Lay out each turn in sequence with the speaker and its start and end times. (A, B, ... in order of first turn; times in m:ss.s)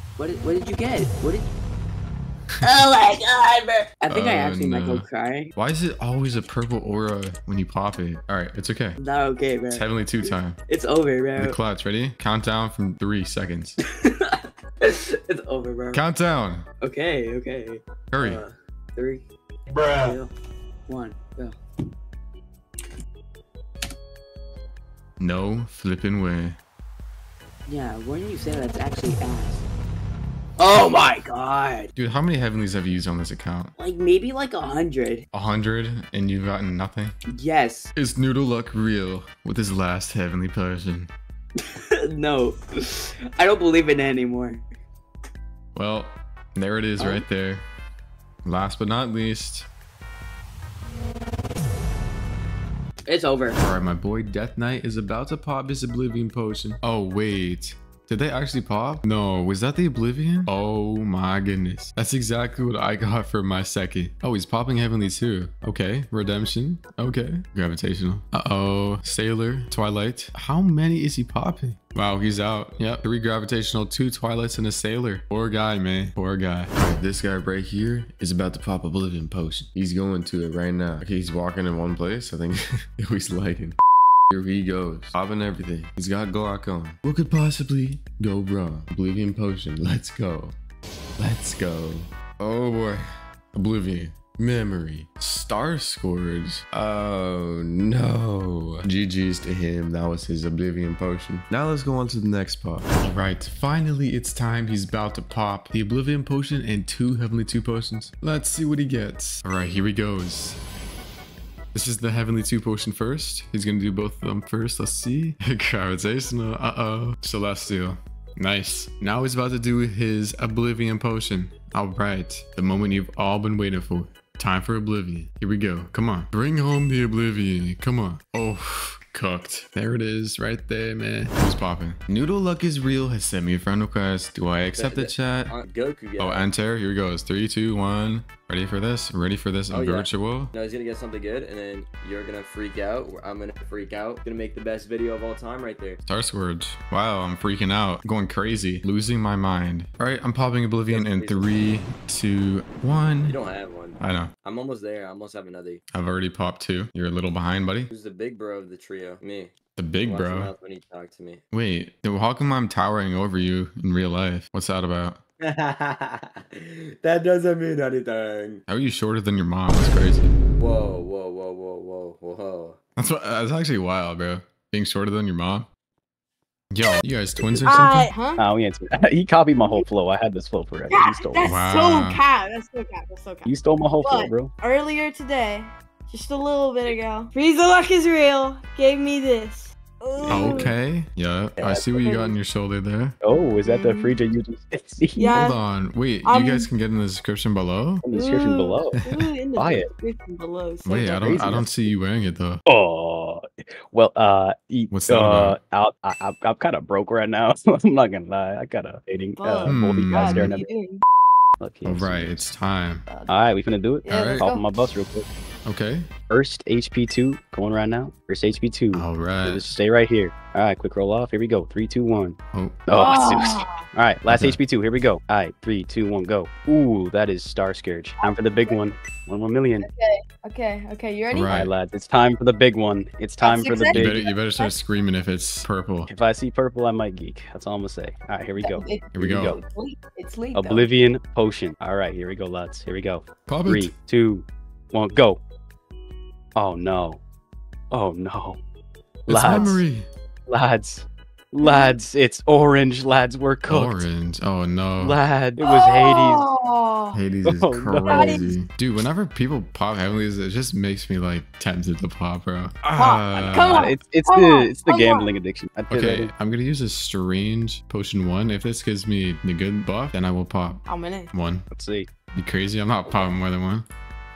0:00.2-0:01.5 A
0:02.6-0:05.5 A
0:04.1-0:09.0 B
0:09.0-0:11.6 A
0:09.7-0:10.6 B
0:11.4-0:13.8 B
0:13.8-0:16.0 A
0:15.9-0:16.6 B
0:16.8-0:19.2 A
0:18.1-0:18.4 B
0:19.8-0:20.3 A
0:20.9-0:21.5 A
0:25.2-0:26.6 B
0:27.7-0:29.6 A
0:30.6-0:31.9 A
0:32.0-0:33.7 B
0:33.8-0:35.2 A
0:35.3-0:37.1 B
0:37.3-0:37.9 A
0:38.0-0:41.1 B
0:41.6-0:44.6 A
0:45.7-0:47.6 B
0:47.0-0:47.2 A
0:48.4-0:49.7 B
0:53.1-0:53.6 A
0:53.6-1:23.8 B
1:24.3-1:30.5 B
1:31.2-1:50.6 B
1:51.7-2:15.5 B
2:14.7-2:16.5 C
2:16.2-2:20.5 B
2:19.7-2:26.0 C
2:26.0-2:33.4 B
2:30.9-2:31.5 C
2:33.2-2:35.8 C
2:34.0-2:34.3 B
2:35.9-2:37.9 B
2:37.9-2:39.5 C
2:39.8-2:40.5 B
2:40.0-2:41.4 C
2:41.5-2:45.2 B
2:45.4-2:48.6 C
2:48.7-2:50.3 B
2:50.6-2:52.8 C
2:53.0-2:55.7 B
2:56.7-2:58.1 B
2:57.4-3:01.6 D
2:57.6-2:58.4 E
3:00.9-3:03.5 E
3:01.4-3:02.2 B
3:03.4-3:04.5 D
3:04.0-3:10.7 E
3:10.2-3:10.7 D
3:10.3-3:13.1 B
3:11.6-3:11.9 D
3:12.0-3:12.4 E
3:13.2-3:15.4 D
3:13.6-3:14.2 E
3:15.2-3:15.6 E
3:15.3-3:18.0 B
3:16.2-3:16.7 E
3:18.0-3:19.0 D
3:18.1-3:21.5 E
3:19.6-3:19.9 D
3:20.8-3:22.6 B
3:21.2-3:21.7 D
3:22.6-3:30.7 D
3:24.9-3:25.6 B
3:29.4-3:31.0 E
3:29.6-3:30.6 B
3:31.6-3:32.4 D
3:31.8-3:33.1 B
3:33.1-3:33.4 E
3:33.3-3:35.2 D
3:34.0-3:34.6 E
3:34.1-3:34.4 B
3:35.6-3:36.1 B
3:36.3-3:49.9 D
3:38.9-3:39.8 B
3:42.5-3:42.8 B
3:42.9-3:43.8 E
3:44.3-3:44.6 B
3:48.2-3:48.8 E
3:49.8-3:51.6 E
3:51.3-3:51.7 B
3:51.5-3:54.3 D
3:53.4-3:54.7 E
3:53.9-3:56.1 B
3:56.1-3:59.6 D
3:58.6-4:00.9 E
3:59.1-3:59.6 B
4:00.5-4:05.4 D
4:03.5-4:03.9 B
4:06.6-4:07.2 D
4:07.9-4:08.6 D
4:09.3-4:09.8 D
4:09.3-4:10.1 B
4:10.5-4:14.0 D
4:11.6-4:12.0 E
4:13.7-4:15.2 B
4:15.0-4:16.5 D
4:15.6-4:17.2 E
4:17.1-4:23.9 B
4:17.4-4:18.5 D
4:18.1-4:18.5 E
4:22.9-4:25.3 E
4:23.3-4:26.3 D
4:25.9-4:31.6 B
4:30.9-4:31.3 E
4:31.7-4:32.1 D
4:32.3-4:33.8 B